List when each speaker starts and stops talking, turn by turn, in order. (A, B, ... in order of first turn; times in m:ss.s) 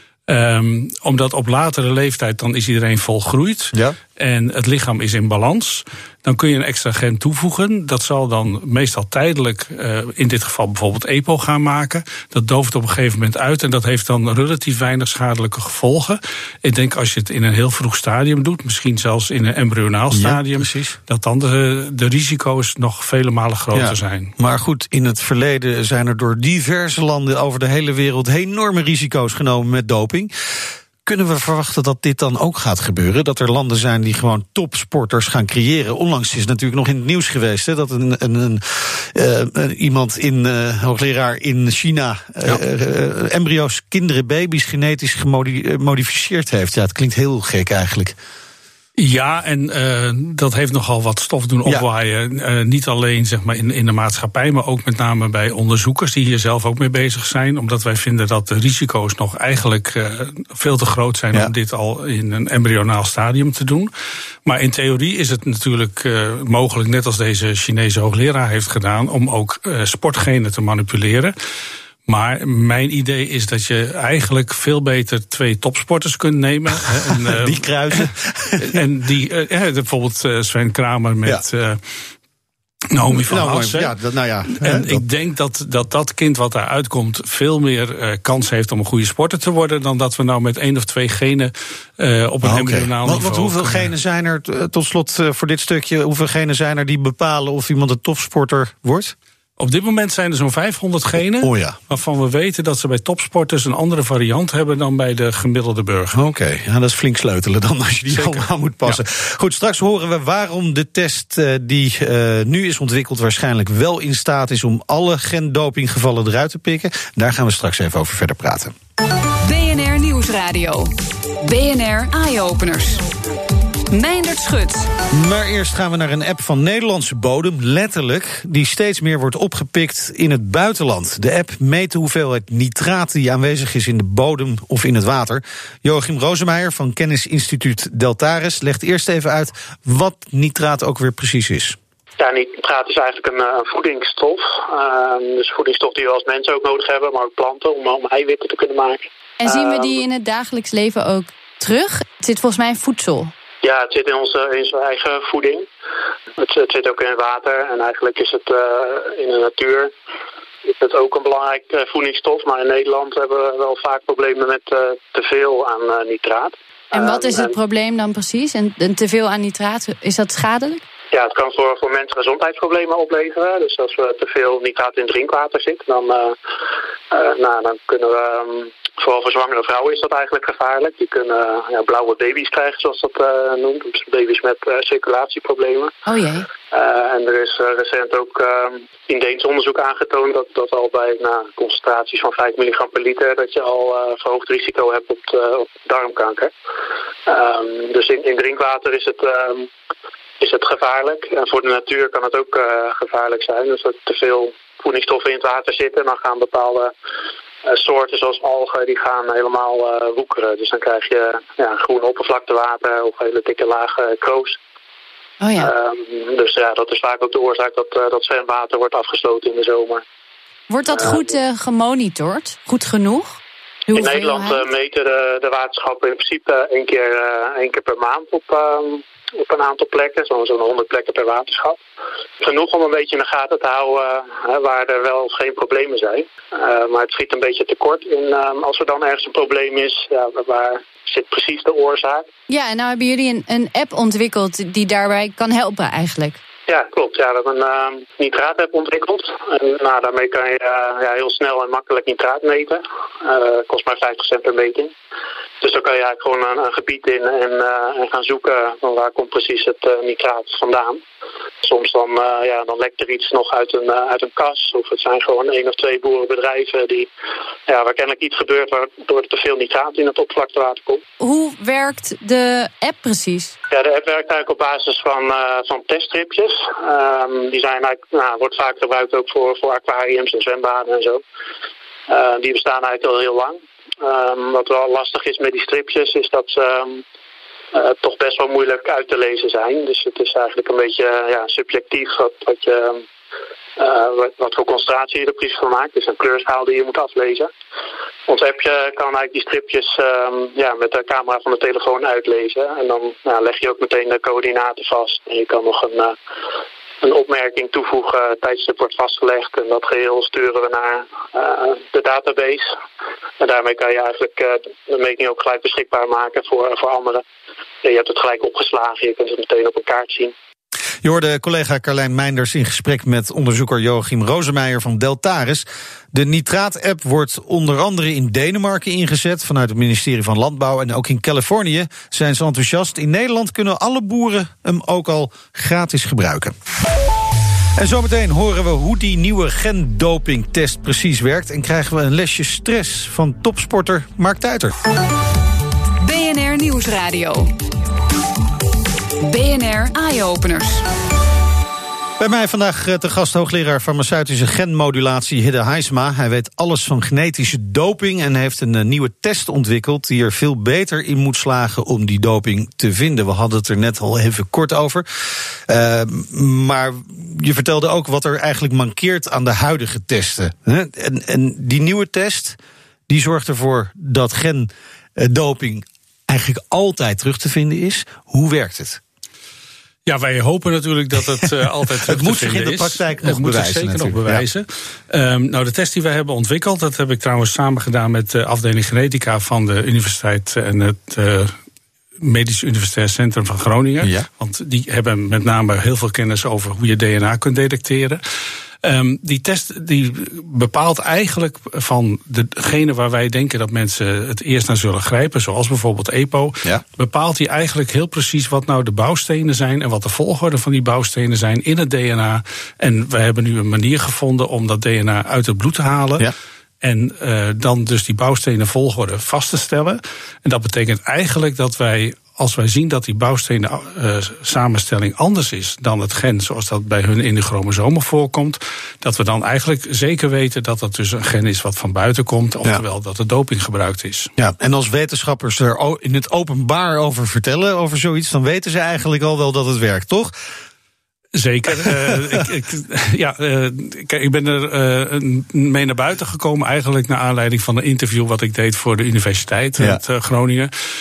0:00.3-0:24.3 A
0:20.1-0:21.0 B
0:23.7-0:30.3 B
0:31.1-0:48.2 B
0:49.0-1:03.9 A
1:04.4-1:11.3 A
1:12.1-1:17.6 A
1:16.9-1:18.8 B
1:18.7-1:21.8 A
1:22.9-1:23.9 A
1:23.1-1:25.0 B
1:24.5-1:33.9 A
1:32.4-1:39.1 B
1:39.6-1:46.2 A
1:41.4-1:41.8 B
1:46.1-1:58.7 B
1:48.1-1:49.0 A
1:59.4-2:03.0 C
2:03.9-2:04.9 C
2:05.1-2:21.8 B
2:22.2-2:30.0 D
2:29.4-2:33.3 E
2:33.6-2:35.7 D
2:36.4-2:39.9 D
2:40.7-2:47.6 D
2:46.9-2:50.8 E
2:51.1-2:56.3 D
2:57.1-3:05.9 D
3:06.1-3:06.5 E
3:06.7-3:16.5 D
3:17.3-3:19.7 D
3:20.4-3:26.9 D
3:27.7-3:34.6 D
3:35.4-3:35.7 E
3:35.6-3:40.0 D
3:40.7-3:44.6 E
3:40.9-3:41.3 D
3:43.9-3:51.8 D
3:52.4-4:02.3 D
4:02.5-4:06.4 E
4:06.7-4:14.9 D
4:15.6-4:21.0 D
4:21.6-4:27.1 D
4:27.7-4:31.0 D
4:31.2-4:33.5 E
4:33.7-4:41.2 D
4:42.1-4:47.0 D
4:47.7-4:53.0 D
4:53.8-4:57.5 D
4:58.3-5:06.1 D
5:07.0-5:12.6 D
5:13.4-5:17.2 D
5:17.8-5:20.3 D
5:21.0-5:36.5 B
5:37.8-5:44.7 B
5:46.0-5:47.5 C
5:49.2-5:50.8 C
5:52.2-6:05.1 B
6:05.7-6:12.6 B
6:13.1-6:19.0 B
6:20.1-6:31.5 A
6:22.0-6:24.5 B
6:32.2-6:38.2 A
6:34.0-6:34.3 B
6:38.8-6:56.2 A
6:56.8-7:14.3 A
7:14.4-7:20.3 B
7:21.4-7:30.7 A